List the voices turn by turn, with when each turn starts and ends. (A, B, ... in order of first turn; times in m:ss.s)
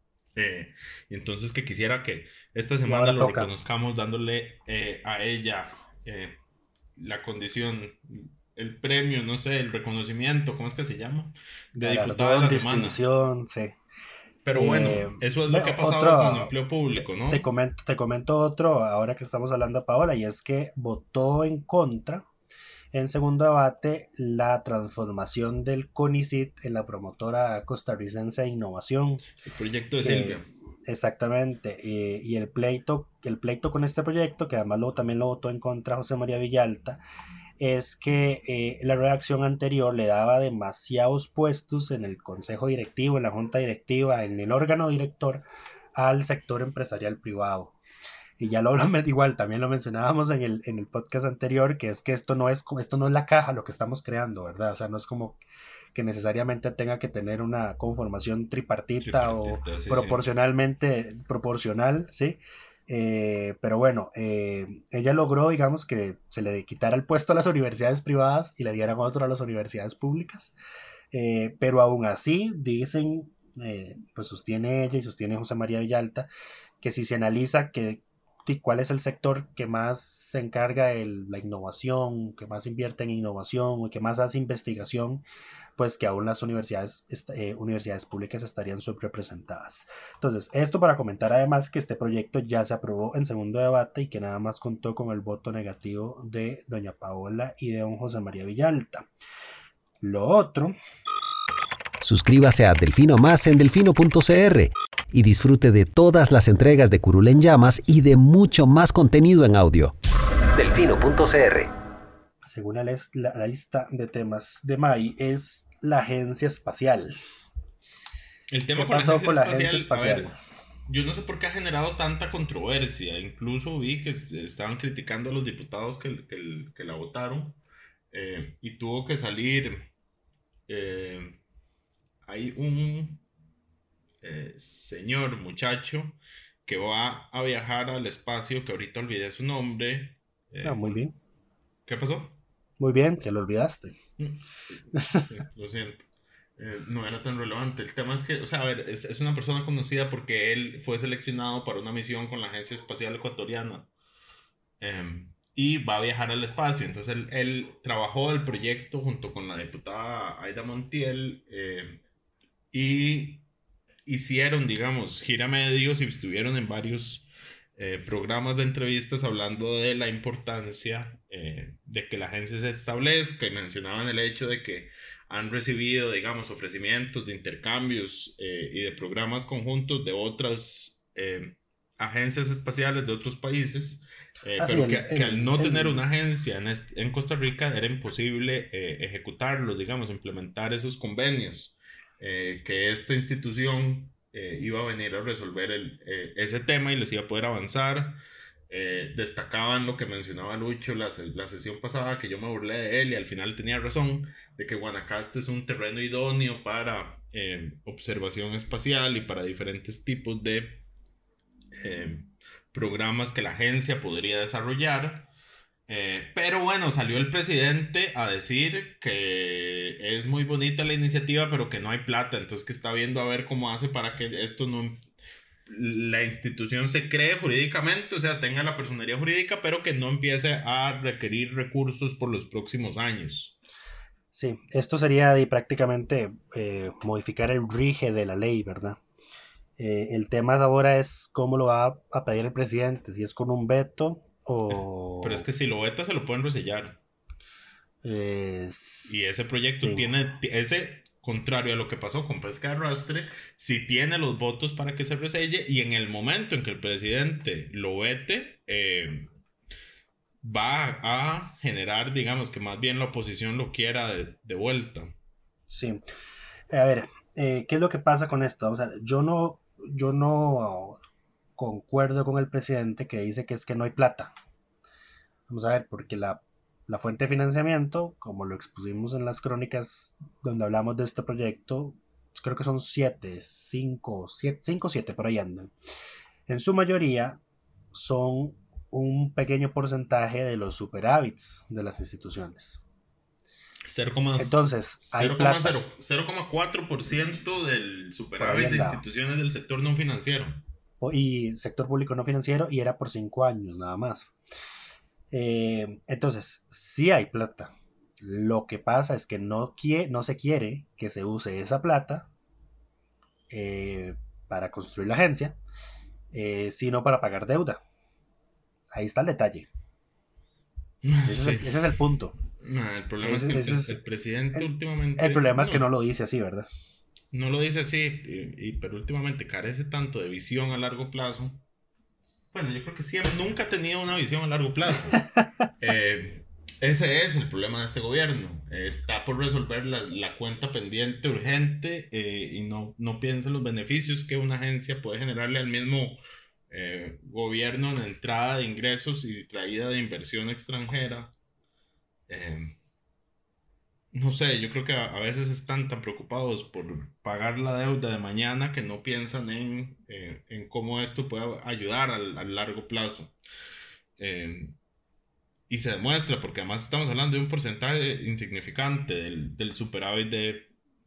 0:00.3-0:06.4 A
0:02.8-0:03.5 B
0:07.0-0:13.0 A
0:11.8-0:13.7 B
0:14.4-0:17.5 A
0:14.5-0:16.5 B
0:17.3-0:22.2 B
0:22.9-0:29.2 B
0:29.4-0:30.4 A
0:30.0-0:37.0 B
0:37.6-0:45.4 B
0:45.9-0:47.8 B
0:48.4-0:55.4 B
0:55.9-1:10.5 B
0:59.0-1:00.2 A
1:11.1-1:16.3 B
1:16.8-1:25.2 B
1:25.8-1:39.1 B
1:40.0-1:40.8 B
1:42.0-1:49.9 C
1:50.5-1:51.7 C
1:52.4-1:57.1 B
1:58.5-2:00.3 A
1:58.8-2:00.3 B
2:00.9-2:07.6 A
2:08.1-2:09.9 A
2:10.7-2:11.4 A
2:12.2-2:13.2 A
2:14.2-2:21.0 A
2:20.6-2:21.1 B
2:21.8-2:22.4 A
2:22.8-2:24.0 B
2:24.2-2:26.0 A
2:24.9-2:25.2 B
2:26.6-2:33.9 A
2:34.8-2:42.0 A
2:42.7-2:43.4 A
2:44.0-2:47.2 A
2:47.8-3:18.2 A
3:04.6-3:06.0 B
3:18.7-3:30.8 A
3:31.8-3:35.3 A
3:35.9-3:45.0 A
3:45.7-3:53.6 A
3:54.3-3:59.0 B
3:59.8-4:05.4 B
4:04.7-4:07.0 A
4:08.0-4:10.1 B
4:09.1-4:19.3 A
4:20.4-4:25.1 A
4:25.7-4:26.0 B
4:26.7-4:31.0 B
4:31.6-4:34.3 B
4:35.5-4:45.7 B
4:46.5-4:47.4 B
4:47.9-4:52.8 B
4:53.9-5:00.6 A
4:54.4-4:55.8 B
4:58.4-4:59.0 B
5:01.0-5:04.3 B
5:05.3-5:12.3 B
5:13.5-5:15.6 B
5:16.3-5:17.8 B
5:18.9-5:19.7 B
5:21.0-5:21.7 A
5:21.2-5:22.3 B
5:22.6-5:25.9 A
5:23.2-5:24.0 B
5:24.5-5:26.7 B
5:27.3-5:31.6 A
5:32.5-5:35.2 A
5:35.8-5:51.3 A
5:52.3-5:52.8 A
5:54.1-6:03.3 A
6:04.2-6:04.8 A
6:05.7-6:10.7 A